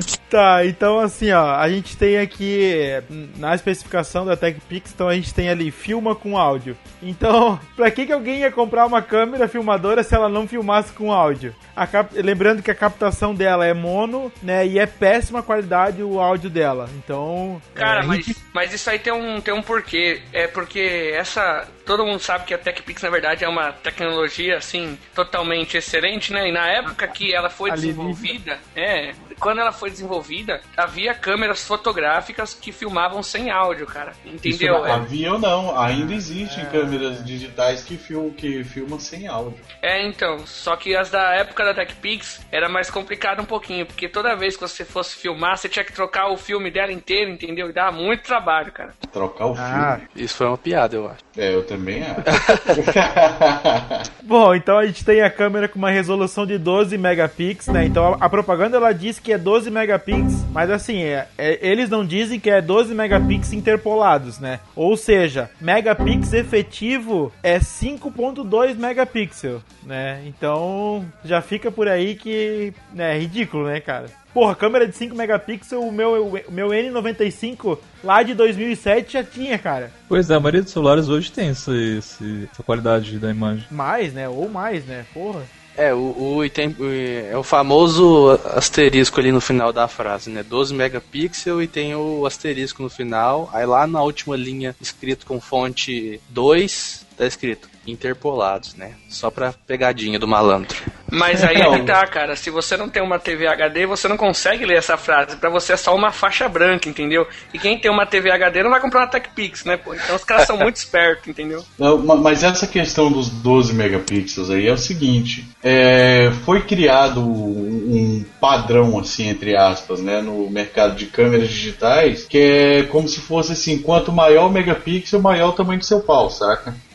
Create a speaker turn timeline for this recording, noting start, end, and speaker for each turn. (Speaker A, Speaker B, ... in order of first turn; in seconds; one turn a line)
Speaker A: 0.3-18.4
Speaker B: 17.8-35.0
Speaker A: 26.9-27.1
Speaker A: 27.7-28.3
Speaker C: 34.5-35.0
Speaker D: 34.5-39.6
Speaker A: 35.9-37.3
Speaker B: 39.8-48.9
Speaker D: 49.0-50.0
Speaker A: 49.5-50.0
Speaker E: 50.1-51.2
Speaker D: 51.3-54.0
Speaker E: 52.3-52.8
Speaker A: 54.2-79.9
Speaker C: 80.1-83.7
Speaker A: 83.7-85.5
Speaker E: 85.8-100.8
Speaker B: 101.1-111.7
Speaker D: 101.5-102.0
Speaker D: 111.8-126.8